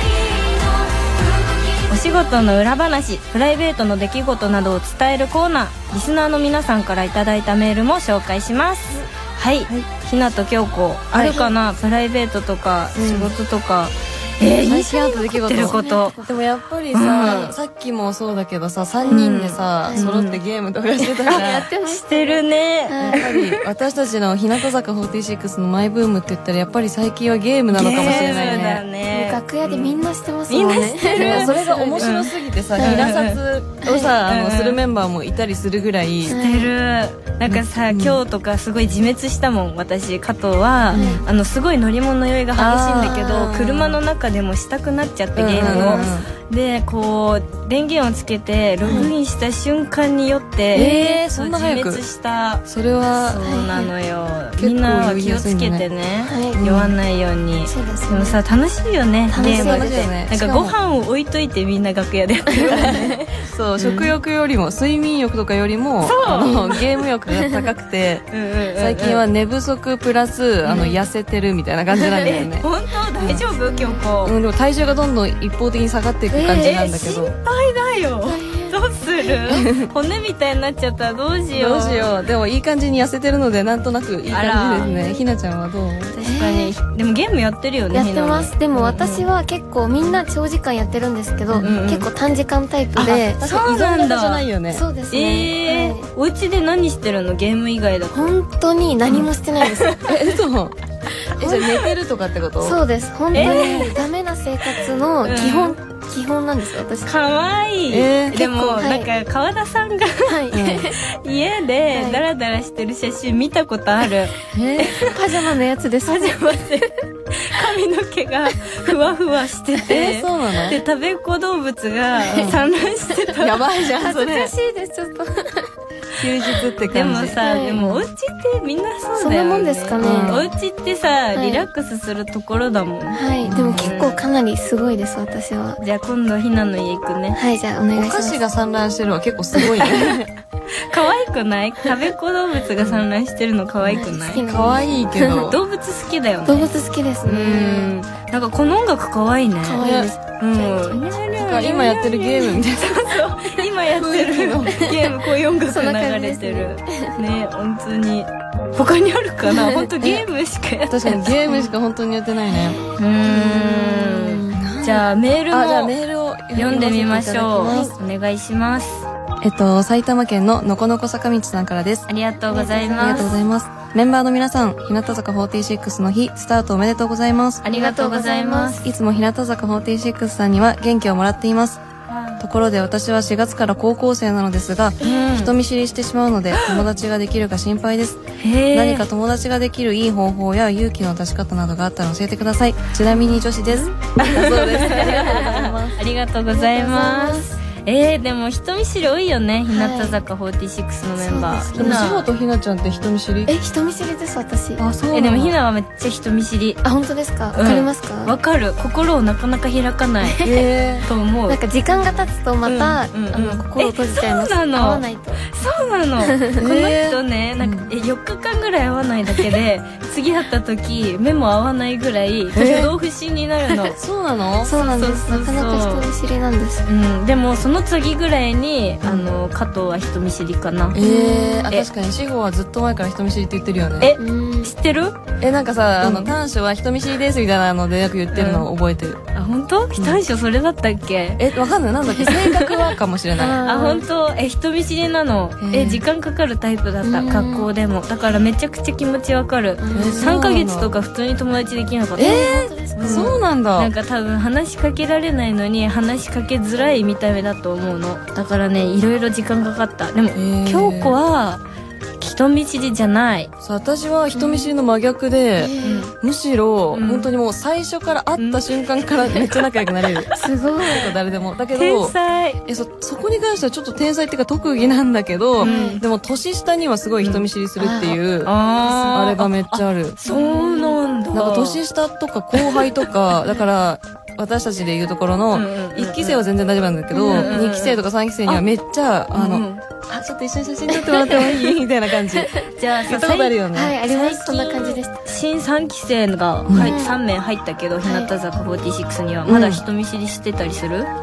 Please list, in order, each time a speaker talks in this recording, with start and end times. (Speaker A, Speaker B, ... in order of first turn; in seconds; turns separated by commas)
Speaker A: 1.7-16.2, Speaker B: 11.1-11.4, Speaker C: 11.2-11.5, Speaker B: 12.9-13.3, Speaker B: 14.6-21.7, Speaker C: 15.6-16.4, Speaker A: 16.9-17.5, Speaker C: 19.0-19.3, Speaker A: 19.1-20.4, Speaker C: 21.0-23.3, Speaker A: 21.3-23.6, Speaker B: 23.0-28.8, Speaker A: 27.7-33.4, Speaker C: 28.0-33.1, Speaker B: 31.1-36.4, Speaker C: 33.8-34.1, Speaker A: 34.2-34.8, Speaker A: 36.3-52.6, Speaker C: 36.3-36.7, Speaker B: 37.5-38.2, Speaker B: 40.9-41.2, Speaker C: 40.9-41.2, Speaker B: 42.5-43.6, Speaker C: 43.0-43.9, Speaker B: 45.4-46.3, Speaker C: 45.6-46.1, Speaker C: 48.8-49.1, Speaker C: 50.7-51.2, Speaker B: 50.7-52.0, Speaker B: 52.6-53.4, Speaker A: 53.1-64.1, Speaker C: 53.4-53.9, Speaker B: 54.6-55.9, Speaker C: 56.2-56.6, Speaker B: 56.5-56.9, Speaker C: 57.7-58.4, Speaker C: 59.3-60.1, Speaker B: 59.4-60.7, Speaker C: 62.5-63.1, Speaker B: 62.7-72.7, Speaker A: 66.0-66.8, Speaker C: 66.4-67.7, Speaker A: 68.3-69.2, Speaker A: 70.7-70.9, Speaker C: 72.0-72.4, Speaker A: 72.2-74.3, Speaker B: 73.2-73.4, Speaker C: 73.6-74.0, Speaker B: 74.2-77.3, Speaker C: 76.3-76.8, Speaker A: 76.6-82.1, Speaker C: 78.2-79.4, Speaker B: 79.5-79.9, Speaker B: 81.5-86.1, Speaker A: 84.3-85.2, Speaker A: 86.1-89.2, Speaker C: 86.2-86.7, Speaker C: 87.9-93.4, Speaker A: 91.6-92.1, Speaker B: 93.0-94.8, Speaker A: 93.4-94.4, Speaker C: 94.7-96.1, Speaker A: 95.1-98.3, Speaker C: 98.1-100.0, Speaker A: 99.1-100.1, Speaker B: 100.0-100.8, Speaker B: 101.3-102.8, Speaker C: 101.3-101.8, Speaker C: 102.6-107.1, Speaker A: 103.3-103.8, Speaker B: 103.3-104.0, Speaker A: 105.2-105.8, Speaker A: 107.0-110.4, Speaker B: 107.9-108.8, Speaker C: 108.7-109.1, Speaker C: 110.2-111.0, Speaker B: 110.5-110.9, Speaker A: 111.1-115.2, Speaker C: 111.9-112.2, Speaker B: 114.5-115.0, Speaker C: 115.0-116.4, Speaker A: 116.0-123.6, Speaker B: 119.8-120.8, Speaker B: 122.3-122.6, Speaker B: 123.4-124.5, Speaker C: 123.8-125.7, Speaker B: 126.2-127.4, Speaker A: 126.9-134.2, Speaker C: 127.4-128.1, Speaker C: 129.2-130.4, Speaker B: 130.0-130.5, Speaker C: 131.3-131.7, Speaker C: 133.1-135.8, Speaker B: 133.4-134.0, Speaker A: 135.8-137.4, Speaker C: 137.3-138.4, Speaker B: 137.9-140.3, Speaker A: 139.8-140.2, Speaker A: 140.8-144.4, Speaker B: 142.8-143.0, Speaker B: 143.8-145.6, Speaker C: 143.9-145.5, Speaker A: 145.4-146.7, Speaker C: 146.4-147.9, Speaker A: 147.2-149.8, Speaker C: 149.6-151.0, Speaker B: 149.8-150.1, Speaker A: 150.4-161.5, Speaker B: 151.3-153.1, Speaker B: 153.9-154.9, Speaker C: 154.6-157.2, Speaker C: 159.5-159.8, Speaker B: 160.0-160.2, Speaker B: 160.9-162.8, Speaker A: 162.9-165.9, Speaker C: 163.3-164.6, Speaker B: 164.5-167.8, Speaker A: 166.5-169.1, Speaker C: 167.6-167.9, Speaker B: 169.4-172.1, Speaker A: 172.1-173.4, Speaker C: 172.5-173.4, Speaker B: 172.9-177.6, Speaker A: 177.6-178.9, Speaker C: 177.7-178.8, Speaker B: 178.8-181.8, Speaker A: 182.1-182.4, Speaker B: 182.4-196.0, Speaker A: 185.0-185.5, Speaker A: 186.6-186.8, Speaker A: 188.4-189.1, Speaker C: 193.1-193.9, Speaker A: 194.2-202.3, Speaker C: 196.5-197.6, Speaker C: 199.7-200.2, Speaker C: 201.2-202.1, Speaker B: 201.7-203.5, Speaker C: 203.5-204.8, Speaker B: 204.8-205.6, Speaker A: 205.1-206.8, Speaker C: 206.8-208.3, Speaker A: 207.5-210.4, Speaker C: 210.2-210.6, Speaker B: 210.4-211.1, Speaker A: 211.1-212.1, Speaker C: 211.5-215.4, Speaker A: 212.6-224.0, Speaker C: 216.2-216.5, Speaker B: 216.6-217.9, Speaker B: 222.6-222.9, Speaker B: 223.9-224.8, Speaker C: 224.6-226.9, Speaker A: 224.7-226.1, Speaker A: 226.8-231.0, Speaker B: 229.0-229.3, Speaker B: 230.9-234.1, Speaker C: 231.0-231.7, Speaker A: 234.0-235.2, Speaker C: 234.2-234.7, Speaker B: 235.4-239.2, Speaker A: 236.0-236.3, Speaker A: 238.3-238.7, Speaker A: 239.3-241.4, Speaker B: 239.9-240.2, Speaker B: 241.4-243.6, Speaker A: 242.1-242.8, Speaker C: 243.3-244.1, Speaker A: 243.6-261.6, Speaker B: 245.6-246.0, Speaker C: 247.0-247.7, Speaker C: 249.8-250.3, Speaker B: 249.9-250.9, Speaker B: 252.2-253.9, Speaker C: 252.2-253.4, Speaker B: 260.3-261.2, Speaker A: 262.2-263.5, Speaker B: 263.6-272.1, Speaker C: 264.3-264.7, Speaker C: 265.6-266.1, Speaker A: 265.8-266.1, Speaker A: 266.9-267.3, Speaker A: 268.4-268.6, Speaker C: 270.3-271.2, Speaker A: 271.7-272.6, Speaker B: 272.7-278.5, Speaker A: 275.6-276.0, Speaker C: 275.6-276.0, Speaker C: 277.8-278.2, Speaker A: 278.4-281.8, Speaker B: 279.1-280.2, Speaker C: 280.2-281.0, Speaker B: 281.3-292.5, Speaker A: 282.6-282.9, Speaker A: 285.5-286.4, Speaker C: 287.1-287.6, Speaker A: 287.3-288.6, Speaker A: 289.3-289.8, Speaker C: 290.9-291.7, Speaker C: 292.3-292.7, Speaker A: 292.8-301.1, Speaker B: 293.1-294.0, Speaker C: 293.7-295.2, Speaker B: 296.7-296.9, Speaker C: 296.7-297.1, Speaker C: 298.1-298.3, Speaker B: 299.4-299.8